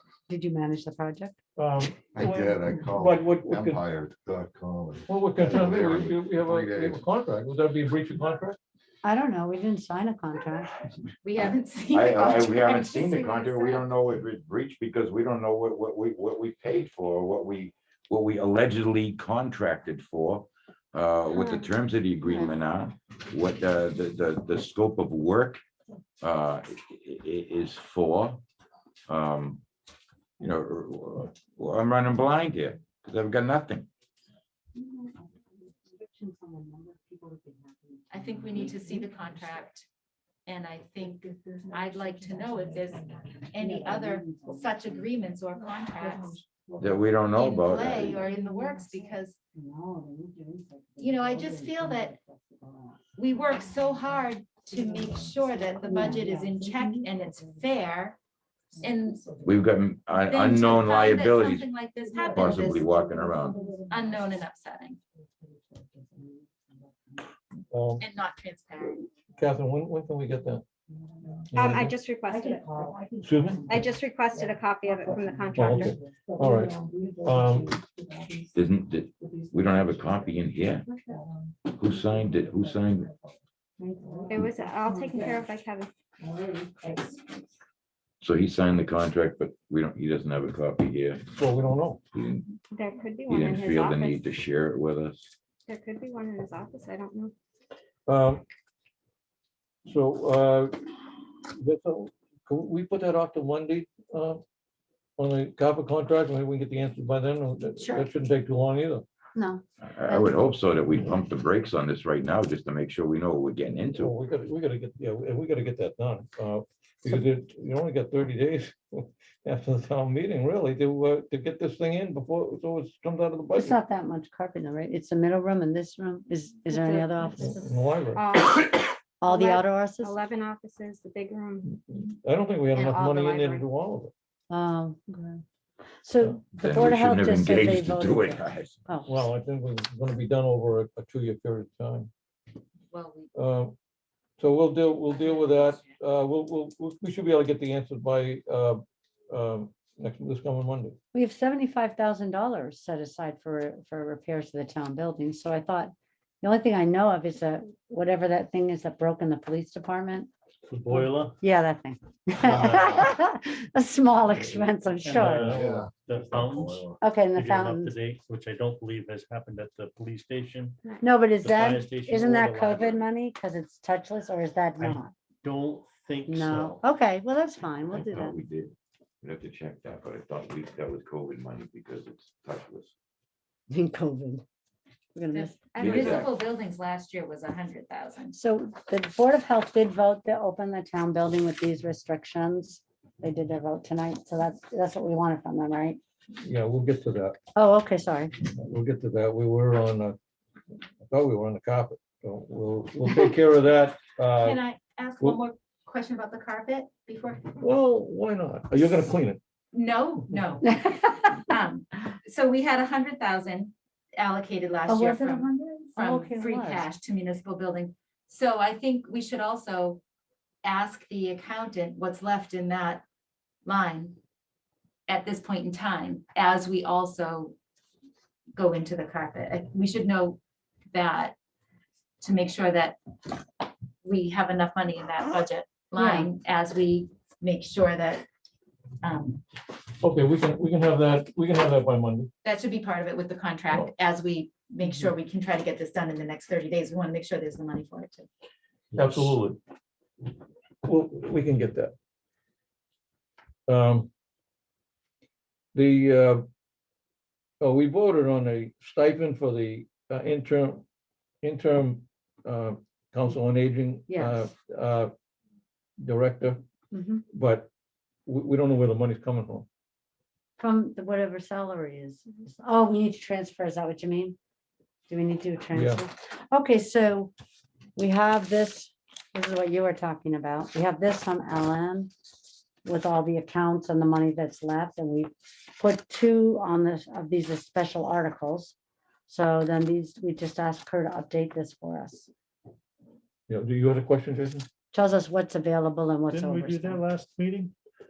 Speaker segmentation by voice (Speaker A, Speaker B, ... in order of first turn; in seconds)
Speaker A: 0.3-1.4, 9.0-10.7, 21.4-21.6, 22.2-22.5, 35.6-38.7, 43.6-45.0, 49.5-53.0, 54.8-57.0, 63.2-64.0, 65.4-66.7, 71.1-71.4, 72.3-73.9, 76.2-77.3, 83.8-84.3, 86.4-87.1, 109.4-110.3, 123.6-127.8, 129.2-130.2, 134.5-135.4, 136.0-139.1, 151.1-160.3, 160.9-165.6, 167.0-168.0, 171.0-175.1, 176.3-178.4, 183.7-184.4, 185.2-186.2, 188.3-196.0, 197.6-198.3, 210.8-211.2, 214.9-216.9, 235.9-236.3, 264.1-264.5, 266.9-267.2, 270.6-274.4, 275.1-277.3, 277.9-282.1, 282.8-288.8, 289.3-292.3, 294.9-297.0
Speaker B: 1.6-3.8, 5.1-8.6, 67.7-68.0, 69.4-70.7, 71.5-72.0, 73.2-73.7, 75.5-77.8, 91.4-92.0, 98.1-98.4, 99.9-100.7, 101.5-104.4, 105.2-109.0, 114.0-123.8, 127.4-128.3, 131.7-134.1, 139.1-142.1, 143.3-143.7, 144.4-151.0, 196.4-197.4, 198.6-200.2, 201.1-204.6, 207.6-209.4, 240.0-242.3, 248.9-249.6, 250.8-251.9, 253.7-254.1, 255.7-256.4, 257.6-260.8, 261.4-265.1, 266.0-266.6, 267.3-267.7, 268.2-269.7, 275.7-276.0, 293.5-294.7
Speaker C: 2.1-7.0, 162.4-162.9, 165.4-167.0
Speaker D: 11.2-13.9, 38.1-39.9, 40.5-46.4, 47.3-49.4, 51.0-52.1, 53.2-58.2, 58.8-59.4, 60.2-63.0, 63.9-65.0, 68.0-69.1, 107.8-108.0, 142.9-143.3, 185.3-188.4, 204.4-207.5, 209.7-220.0, 220.6-223.0, 223.7-224.2, 225.1-227.6, 228.6-230.4, 230.9-231.4, 232.2-233.4, 234.0-238.2, 239.0-239.4, 242.4-248.3
Speaker E: 11.9-25.6, 26.2-28.4, 29.1-29.6, 30.4-33.9, 46.8-48.2, 59.4-61.7, 62.3-63.6, 78.5-80.9, 81.7-83.1, 88.2-91.2, 92.1-92.5, 93.3-95.3, 109.8-114.1, 136.6-138.8, 177.9-182.9, 185.8-186.3
Speaker F: 71.5-72.9, 73.7-76.0, 84.3-85.9, 92.7-94.4, 95.7-97.3, 126.7-127.5, 128.1-131.7, 132.8-133.7
Speaker G: 160.7-161.4, 165.0-170.8, 171.4-173.0, 174.8-176.8, 296.3-297.7